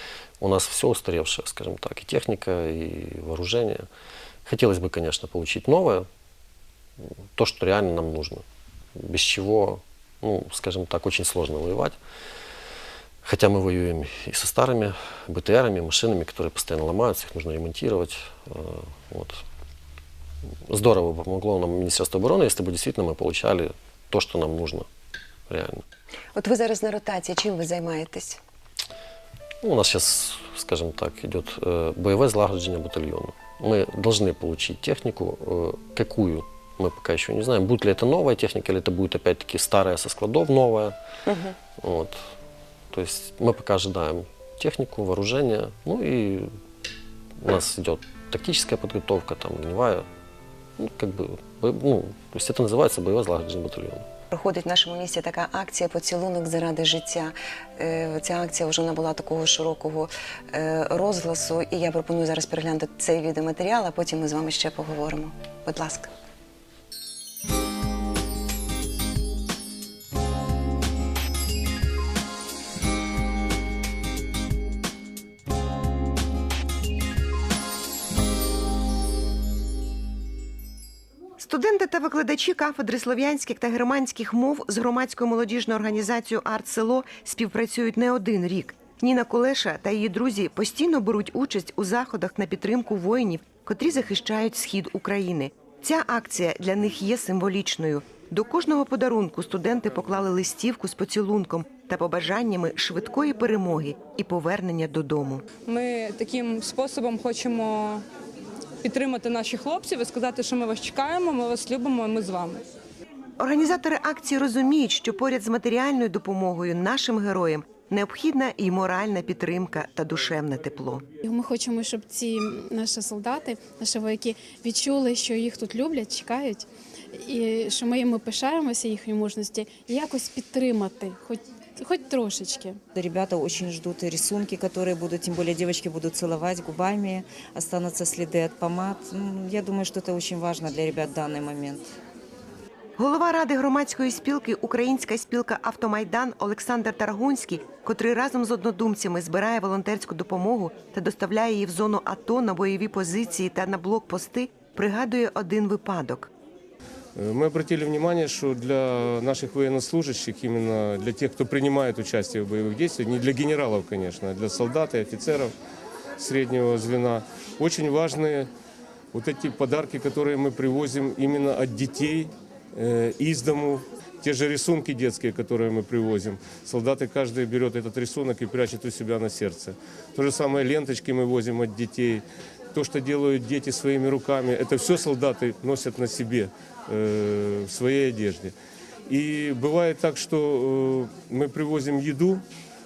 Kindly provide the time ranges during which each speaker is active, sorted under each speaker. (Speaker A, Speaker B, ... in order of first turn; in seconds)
Speaker A: 0.4-3.9, 4.5-6.1, 7.4-8.4, 8.9-12.0, 13.2-19.4, 20.7-24.9, 25.5-25.8, 29.6-41.0, 41.8-42.3, 42.9-46.5, 47.4-50.1, 50.8-54.0
Speaker B: 26.4-28.4, 41.3-41.6, 54.3-66.1, 81.4-105.4, 113.4-121.0, 143.0-156.3
Speaker C: 105.7-108.0, 108.8-112.6
Speaker D: 121.2-132.8
Speaker E: 132.9-141.9
Speaker F: 157.2-165.5, 166.2-168.5, 169.1-188.5, 189.1-192.4